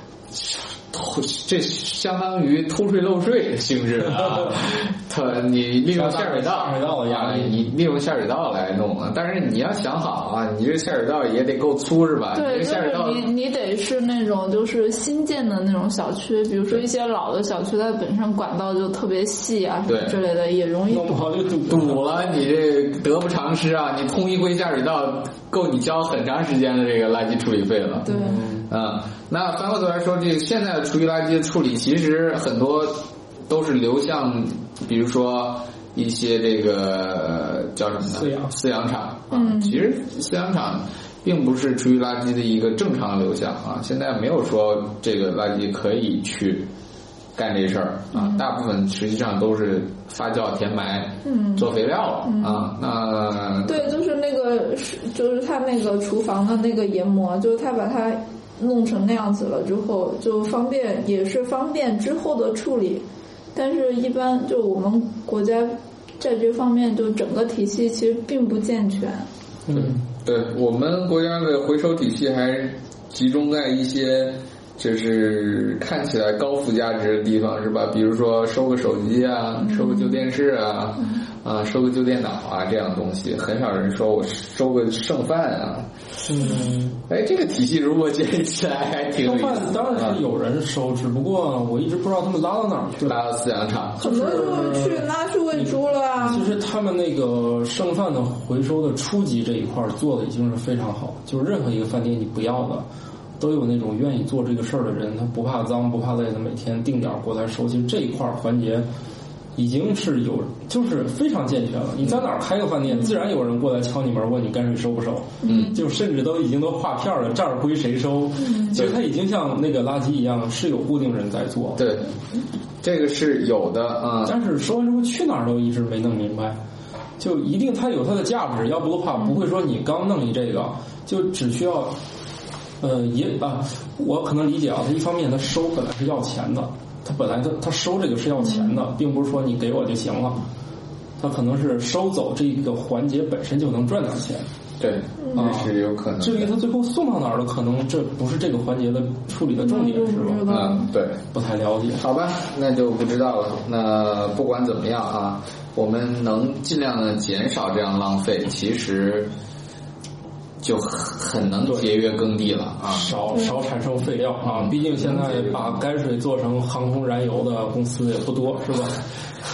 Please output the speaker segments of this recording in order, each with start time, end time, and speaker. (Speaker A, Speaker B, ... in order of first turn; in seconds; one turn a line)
Speaker A: 0.3-13.3
Speaker B: 5.9-7.6
Speaker C: 12.3-21.2
Speaker A: 19.9-20.2
Speaker B: 20.9-22.0
Speaker A: 21.7-28.1
Speaker B: 28.1-28.7
Speaker C: 28.1-28.4
Speaker A: 28.7-46.7
Speaker B: 38.1-38.5
Speaker C: 39.3-39.8
Speaker A: 47.3-53.9
Speaker C: 48.1-48.4
Speaker C: 51.2-51.7
Speaker C: 52.2-52.7
Speaker C: 53.7-69.3
Speaker B: 69.7-70.0
Speaker A: 69.7-85.9
Speaker C: 79.7-80.2
Speaker B: 86.3-87.0
Speaker A: 87.1-90.2
Speaker B: 89.2-93.2
Speaker A: 93.0-94.1
Speaker B: 94.0-102.9
Speaker C: 94.0-96.5
Speaker B: 103.4-108.9
Speaker B: 109.5-121.8
Speaker C: 115.4-115.8
Speaker A: 115.4-115.8
Speaker C: 118.4-118.7
Speaker A: 121.8-122.1
Speaker A: 122.8-124.4
Speaker B: 124.2-126.6
Speaker B: 127.2-131.9
Speaker B: 132.8-140.4
Speaker C: 138.4-138.8
Speaker B: 141.2-144.5
Speaker A: 144.8-146.5
Speaker B: 145.3-150.5
Speaker C: 149.6-150.9
Speaker A: 150.5-151.2
Speaker B: 151.3-152.0
Speaker A: 151.9-159.3
Speaker A: 160.6-163.2
Speaker B: 162.8-169.0
Speaker A: 164.4-165.8